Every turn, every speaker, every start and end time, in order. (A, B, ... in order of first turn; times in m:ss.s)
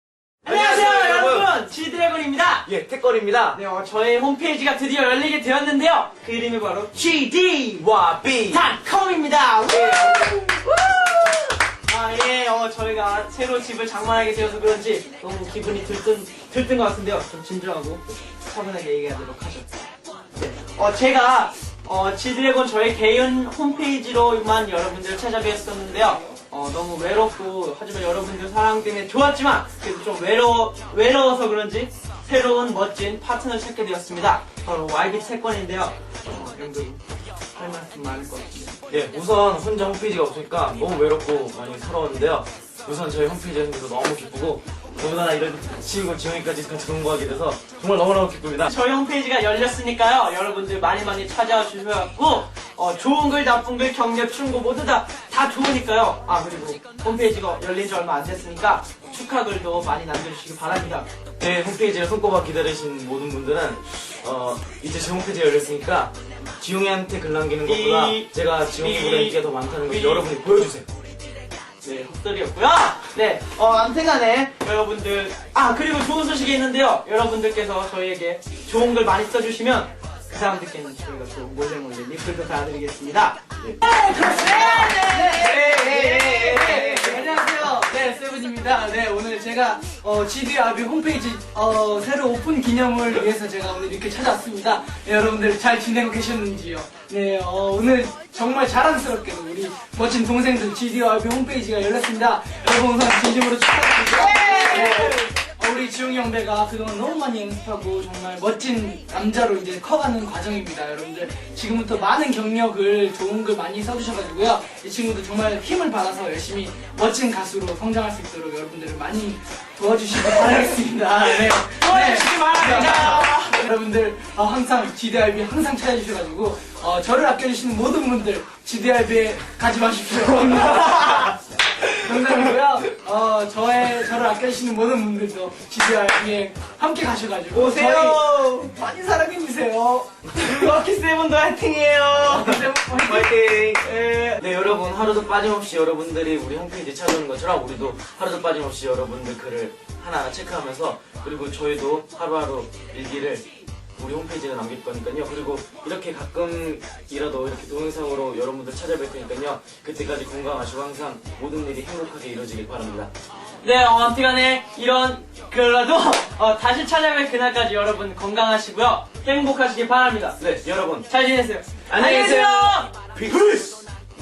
0:00.4-0:01.5 A
0:00.4-0:02.7 B
0:02.6-0:03.6 A
0:03.5-0:07.9 B
0:07.8-0:08.6 A
0:08.5-0:19.7 B
0:20.4-0:37.0 B
0:37.6-0:38.8 B
0:38.9-0:48.7 A
0:48.7-1:01.1 B
1:01.4-1:10.9 A
1:07.6-1:10.7 B
1:11.8-1:27.6 B
1:23.8-2:11.4 C
1:44.1-1:45.2 B
2:01.4-2:03.6 B
2:11.9-2:20.7 C
2:17.5-2:18.7 B
2:20.3-2:24.4 B
2:22.2-2:23.5 C
2:23.0-2:43.1 A
2:43.6-2:50.4 B
2:50.4-2:51.1 A
2:51.1-2:52.9 B
2:51.9-2:53.8 A